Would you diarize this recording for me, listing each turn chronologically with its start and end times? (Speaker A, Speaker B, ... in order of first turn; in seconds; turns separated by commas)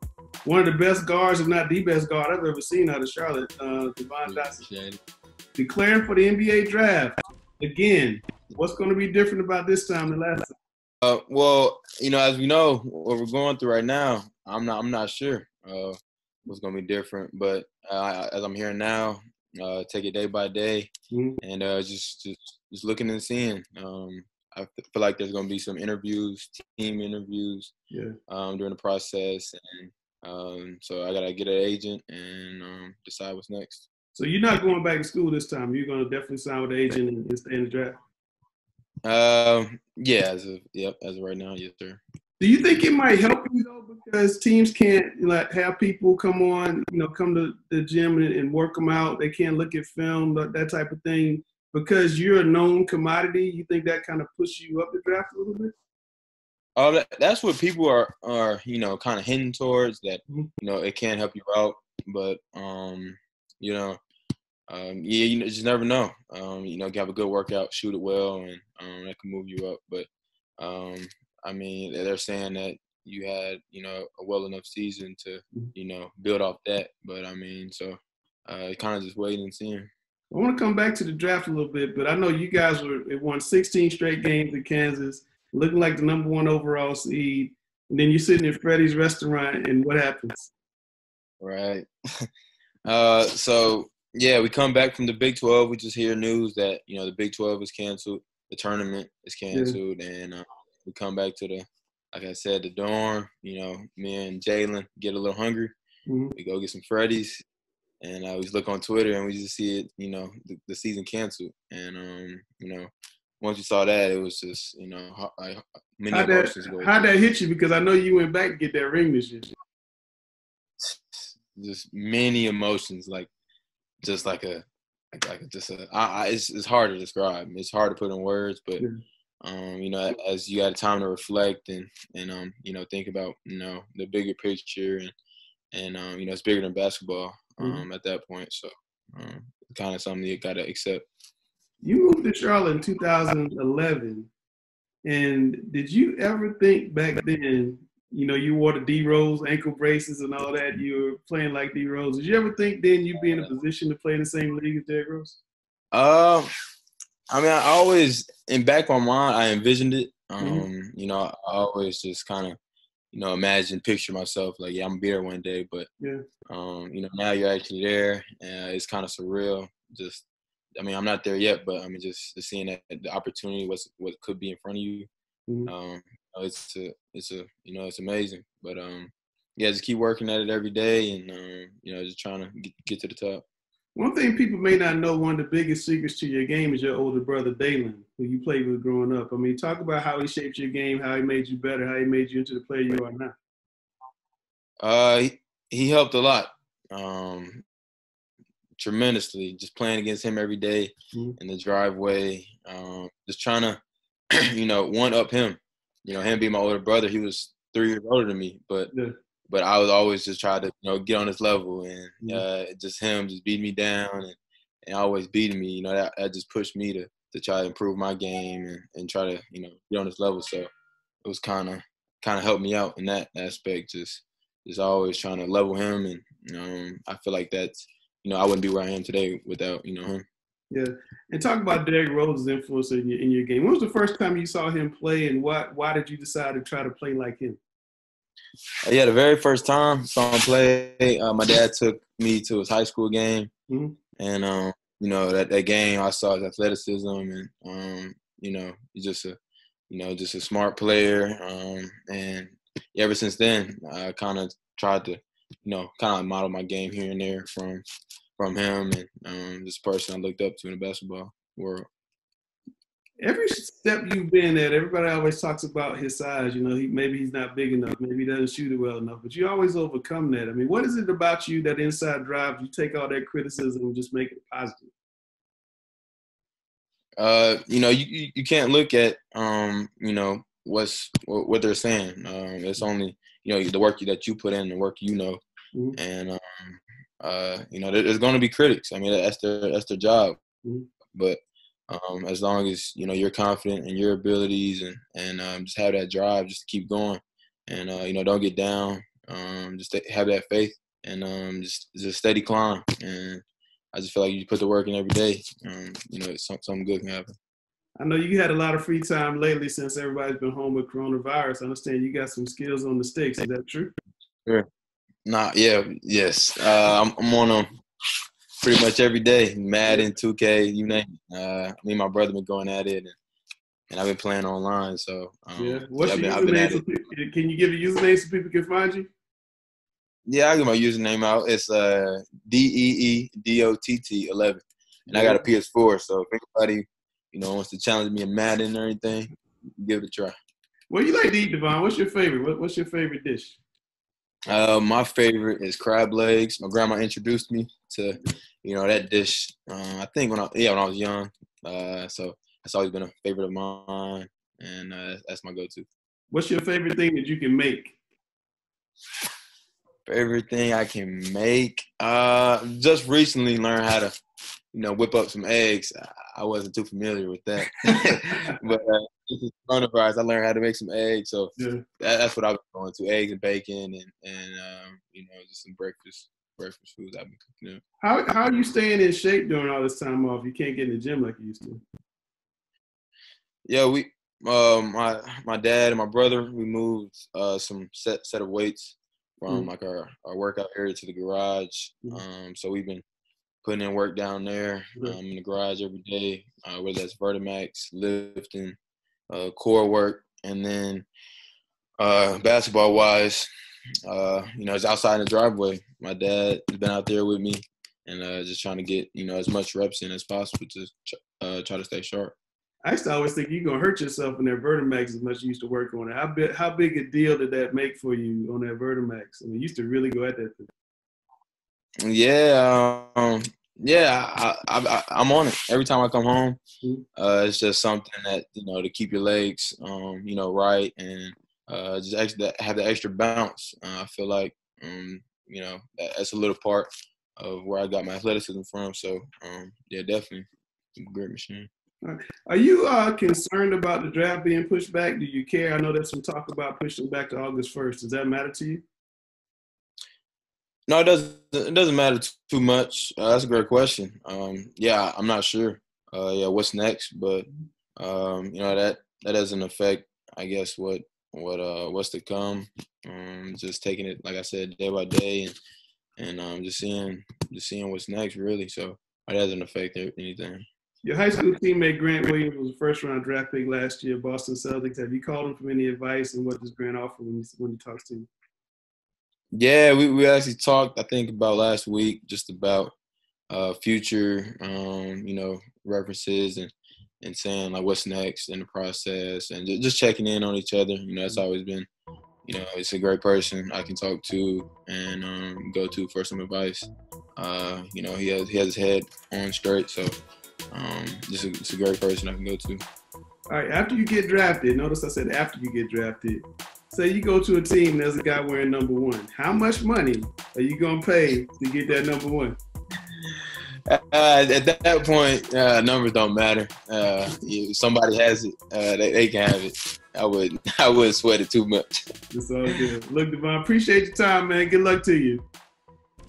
Speaker A: 0.4-4.6, Speaker B: 4.2-5.0, Speaker A: 5.5-10.5, Speaker B: 11.0-20.9, Speaker A: 21.1-21.4, Speaker B: 21.4-27.7, Speaker A: 27.9-28.1, Speaker B: 28.3-33.9, Speaker A: 34.1-38.0, Speaker B: 39.0-42.0, Speaker A: 42.4-55.7, Speaker B: 56.8-64.0, Speaker B: 64.7-70.1, Speaker B: 70.6-79.9, Speaker A: 80.3-90.5, Speaker B: 91.4-92.3, Speaker B: 92.8-105.7, Speaker A: 99.5-99.8, Speaker A: 106.1-106.3, Speaker B: 106.3-107.4, Speaker B: 108.0-117.0, Speaker A: 116.1-119.5, Speaker B: 120.8-123.3, Speaker B: 124.0-128.8, Speaker B: 129.4-135.1, Speaker B: 135.7-141.0, Speaker A: 137.6-137.8, Speaker A: 141.8-144.3, Speaker A: 145.0-155.4, Speaker B: 155.9-156.5, Speaker B: 157.3-162.6, Speaker A: 160.4-160.7, Speaker B: 163.1-165.9, Speaker B: 166.5-170.2, Speaker B: 170.8-175.1, Speaker B: 175.7-183.4, Speaker A: 183.9-193.3, Speaker B: 194.8-197.6, Speaker B: 198.8-203.8, Speaker B: 204.5-208.9, Speaker A: 208.9-209.2, Speaker B: 209.5-220.7, Speaker B: 221.2-230.2, Speaker A: 230.7-237.6, Speaker B: 238.8-243.5, Speaker A: 243.7-244.0, Speaker B: 244.2-249.4, Speaker B: 249.9-257.8, Speaker B: 258.4-261.9, Speaker A: 263.2-274.9, Speaker B: 277.2-285.4, Speaker B: 285.9-290.4, Speaker B: 291.1-307.3, Speaker A: 308.0-313.9, Speaker B: 315.2-317.7, Speaker B: 318.6-323.1, Speaker B: 323.9-326.8, Speaker A: 325.6-329.1, Speaker B: 330.2-340.3, Speaker A: 335.1-335.4, Speaker A: 340.9-343.6, Speaker B: 344.5-355.9, Speaker A: 356.3-357.9, Speaker B: 360.1-364.1, Speaker B: 364.7-377.8, Speaker A: 368.1-368.5, Speaker A: 371.6-371.8, Speaker A: 378.0-381.8, Speaker B: 383.6-393.0, Speaker B: 393.6-398.8, Speaker B: 399.3-401.1, Speaker B: 402.0-403.5, Speaker B: 404.1-412.4, Speaker A: 412.8-420.7, Speaker B: 422.0-426.6, Speaker B: 427.1-440.4, Speaker B: 441.0-441.7, Speaker A: 442.0-448.8, Speaker B: 450.9-465.5, Speaker B: 466.2-470.6, Speaker A: 471.0-478.3, Speaker B: 479.5-482.9, Speaker B: 483.5-486.7, Speaker B: 487.2-491.9, Speaker B: 492.4-500.2, Speaker B: 500.7-502.8, Speaker A: 503.5-512.6, Speaker B: 513.9-522.0, Speaker A: 522.3-525.4